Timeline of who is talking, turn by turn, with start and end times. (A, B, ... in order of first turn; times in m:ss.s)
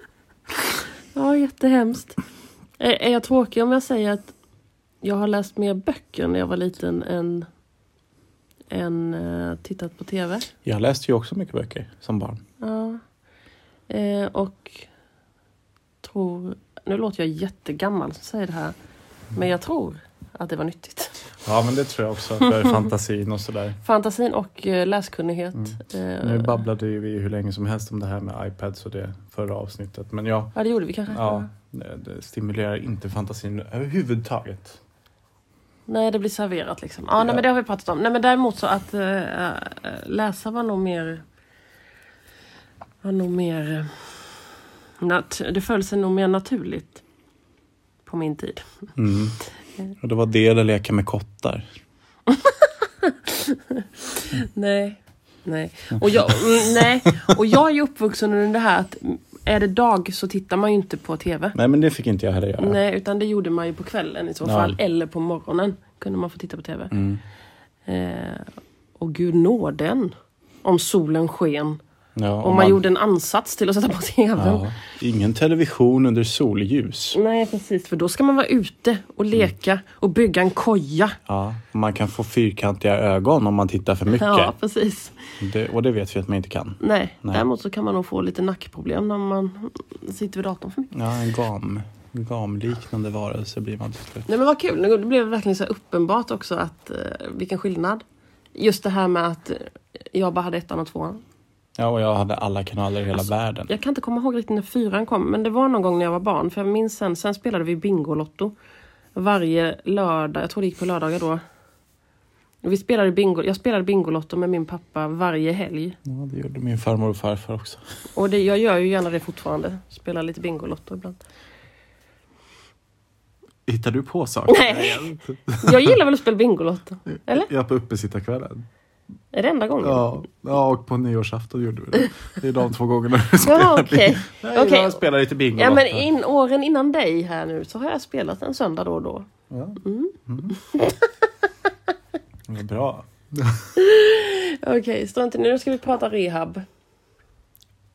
0:01.1-0:02.2 A
0:02.8-0:04.3 A
0:05.0-0:07.5 A
0:08.7-0:10.5 A
0:10.6-0:12.4 B
0:12.6-0:13.0 A
0:13.9-0:14.9 A
0:16.0-0:18.8 A
0:19.4-0:21.2 A
0:21.4-0:23.8 B
0:23.8-0:26.6 A
0:25.6-0:30.6 B
0:30.6-0:31.5 A
0:31.1-0:34.8 B
0:35.9-0:41.2 A
0:43.0-0:44.1 A
0:45.0-0:47.0 A
0:48.1-0:48.8 A
0:49.0-0:49.4 B
0:50.0-0:51.7 B
0:52.3-1:01.6 A
0:56.0-0:56.9 B
1:01.5-1:02.8 B
1:02.6-1:06.9 A
1:04.4-1:04.8 B
1:06.9-1:07.2 B
1:07.9-1:11.8 A
1:12.2-1:12.8 B
1:12.4-1:14.7 A
1:14.4-1:17.2 B
1:17.1-1:21.2 A
1:21.3-1:24.5 B
1:24.1-1:25.2 A
1:25.4-1:27.4 B
1:26.8-1:30.9 A
1:30.9-1:34.2 B
1:34.3-1:38.0 A
1:38.6-1:41.2 A
1:41.8-1:43.7 B
1:43.7-1:48.6 A
1:49.1-1:51.4 A
1:52.6-1:56.0 A
1:56.1-1:57.8 B
1:58.2-2:01.2 A
2:03.7-2:06.0 B
2:04.5-2:07.5 A
2:07.3-2:08.6 B
2:09.3-2:10.1 A
2:09.8-2:16.1 B
2:13.4-2:15.0 A
2:15.6-2:19.3 A
2:19.5-2:20.6 B
2:19.8-2:21.5 A
2:22.5-2:23.7 B
2:23.8-2:26.6 A